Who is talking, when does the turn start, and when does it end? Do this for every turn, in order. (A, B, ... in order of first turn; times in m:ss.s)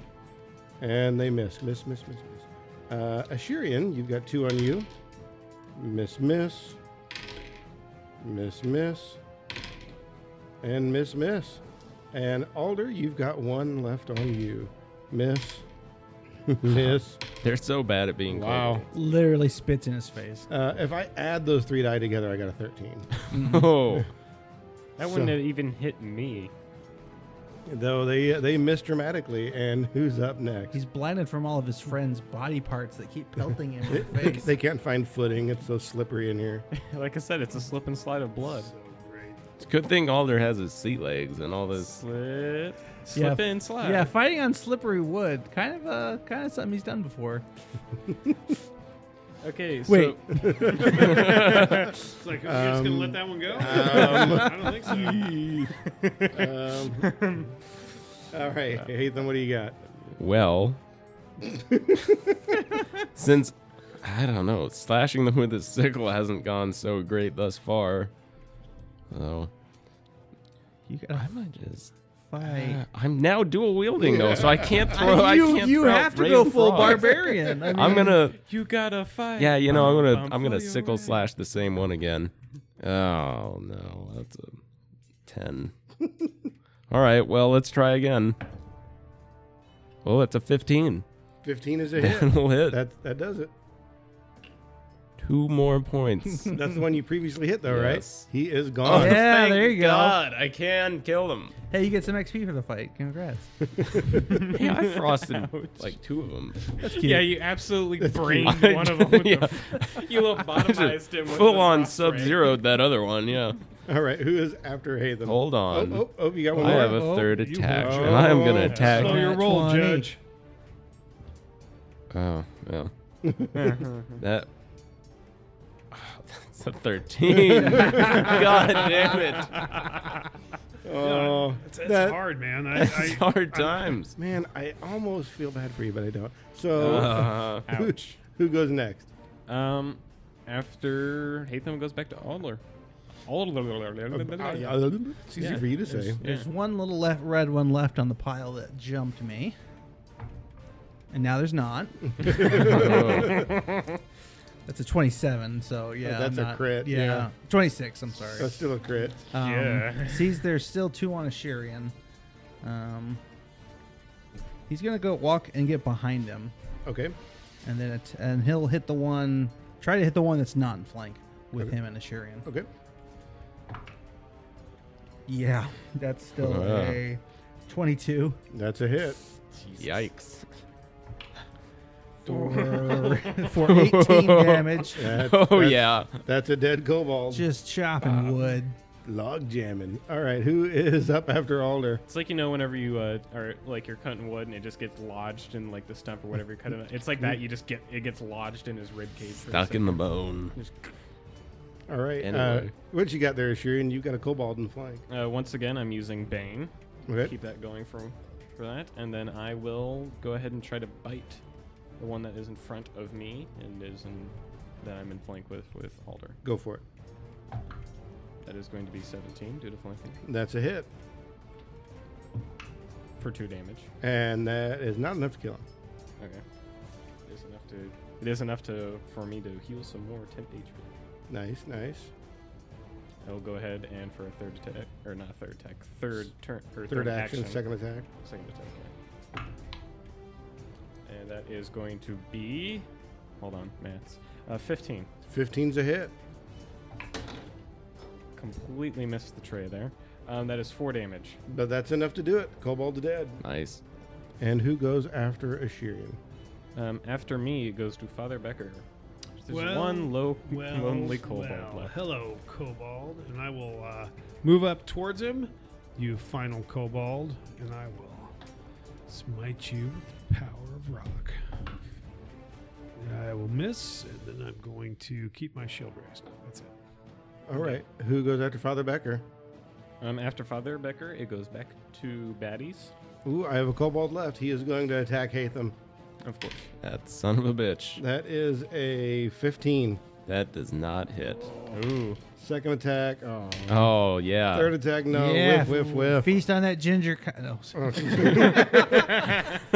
0:00.8-0:04.9 A
0:05.8-0:06.8 A
0:08.2-0:09.2 A
0:10.6-0:15.6 A
0:16.5-0:17.2 A
0:16.6-0:18.9 B
0:18.3-0:18.8 A
0:18.9-0:20.5 C
0:20.5-0:23.2 A
0:23.3-0:23.7 C
0:23.3-0:24.1 B
0:25.0-0:26.5 D
0:25.0-0:25.4 A
0:27.7-0:30.8 A
0:30.7-0:34.5 C
0:33.9-0:36.6 A
0:36.7-0:38.7 D
0:38.4-0:39.4 E
0:39.6-0:42.0 B
0:41.7-0:44.1 D
0:43.1-0:47.4 C
0:49.4-0:52.0 D
0:49.9-0:50.2 C
0:50.4-0:51.6 A
0:50.9-0:51.6 B
0:52.1-0:55.3 E
0:52.4-0:54.7 A
0:53.7-0:54.4 B
0:53.8-0:54.4 D
0:54.9-0:55.7 B
0:55.7-0:57.5 D
0:56.3-0:57.2 A
0:58.3-0:59.8 A
1:00.2-1:00.8 B
1:01.4-1:02.4 A
1:03.1-1:08.1 B
1:09.1-1:09.5 B
1:10.9-1:11.4 C
1:11.1-1:18.4 B
1:12.3-1:12.8 C
1:14.0-1:14.8 A
1:14.8-1:18.2 C
1:18.3-1:21.3 D
1:19.4-1:24.6 B
1:25.2-1:25.7 B
1:26.0-1:26.3 A
1:26.9-1:28.4 B
1:30.0-1:31.0 B
1:31.4-1:33.5 A
1:31.9-1:32.8 B
1:35.2-1:36.6 B
1:36.5-1:39.2 A
1:37.6-1:38.3 B
1:38.8-1:41.5 B
1:38.9-1:40.2 C
1:41.7-1:43.7 C
1:44.4-1:45.9 D
1:44.4-1:46.7 B
1:46.8-1:47.3 C
1:46.8-1:52.6 D
1:48.0-1:48.6 A
1:48.3-1:53.6 B
1:53.8-1:57.1 A
1:55.2-1:59.3 B
1:56.6-1:57.8 C
1:56.8-2:00.2 E
1:57.8-1:59.2 A
1:58.7-1:59.1 D
1:58.9-2:00.1 C
2:02.1-2:02.9 B
2:03.2-2:03.8 A
2:03.5-2:04.2 D
2:04.2-2:04.5 B
2:05.9-2:09.8 B
2:07.5-2:08.4 A
2:10.8-2:12.2 A
2:11.0-2:14.0 E
2:12.7-2:14.1 B
2:14.2-2:19.1 A
2:16.7-2:18.2 D
2:16.8-2:17.6 B
2:19.5-2:22.6 D
2:23.2-2:26.5 D
2:24.1-2:26.2 A
2:26.2-2:29.6 C
2:31.1-2:32.4 C
2:32.2-2:33.5 A
2:32.5-2:33.5 B
2:32.6-2:33.8 D
2:34.6-2:38.6 C
2:36.0-2:37.3 A
2:38.4-2:39.2 A
2:39.3-2:41.9 C
2:39.3-2:40.4 D
2:42.6-2:43.2 C
2:44.7-2:46.5 C
2:46.8-2:47.2 A
2:47.6-2:52.5 C
2:55.3-2:58.4 C
2:56.4-2:57.0 B
2:58.5-2:59.2 A
2:59.5-3:00.1 D
2:59.8-3:00.5 B
3:02.2-3:05.0 C
3:02.4-3:03.2 D
3:03.5-3:06.2 B
3:04.9-3:07.5 A
3:07.3-3:08.8 C
3:09.0-3:12.0 A
3:12.1-3:20.9 D
3:19.5-3:20.5 B
3:21.9-3:25.0 A
3:22.2-3:22.7 B
3:25.1-3:31.4 D
3:27.1-3:27.3 A
3:32.0-3:36.4 D
3:36.4-3:36.8 A
3:38.4-3:40.2 D
3:40.2-3:40.9 A
3:43.2-3:43.9 D
3:44.0-3:45.6 A
3:47.2-3:50.9 D
3:51.3-3:52.1 A
3:53.2-3:57.6 D
3:56.9-3:58.1 A
3:58.2-3:58.9 D
4:01.0-4:02.9 D
4:03.4-4:05.1 D
4:05.3-4:06.1 A
4:08.4-4:11.4 D
4:11.5-4:13.4 A
4:13.4-4:13.8 B
4:14.4-4:16.2 A
4:16.7-4:18.8 D
4:19.4-4:21.9 D
4:19.5-4:28.3 E
4:29.1-4:31.4 E
4:33.0-4:36.7 E
4:37.5-4:39.2 A
4:40.0-4:42.9 D
4:43.2-4:45.8 A
4:46.2-4:46.7 D
4:46.8-4:48.0 B
4:48.0-4:50.0 A
4:50.2-4:51.5 B
4:51.4-4:51.8 A
4:51.7-4:52.2 D
4:52.4-4:54.0 A
4:53.7-4:54.7 B
4:54.5-4:56.4 A
4:55.1-4:58.6 C
4:57.7-4:59.3 A
4:58.5-4:59.0 B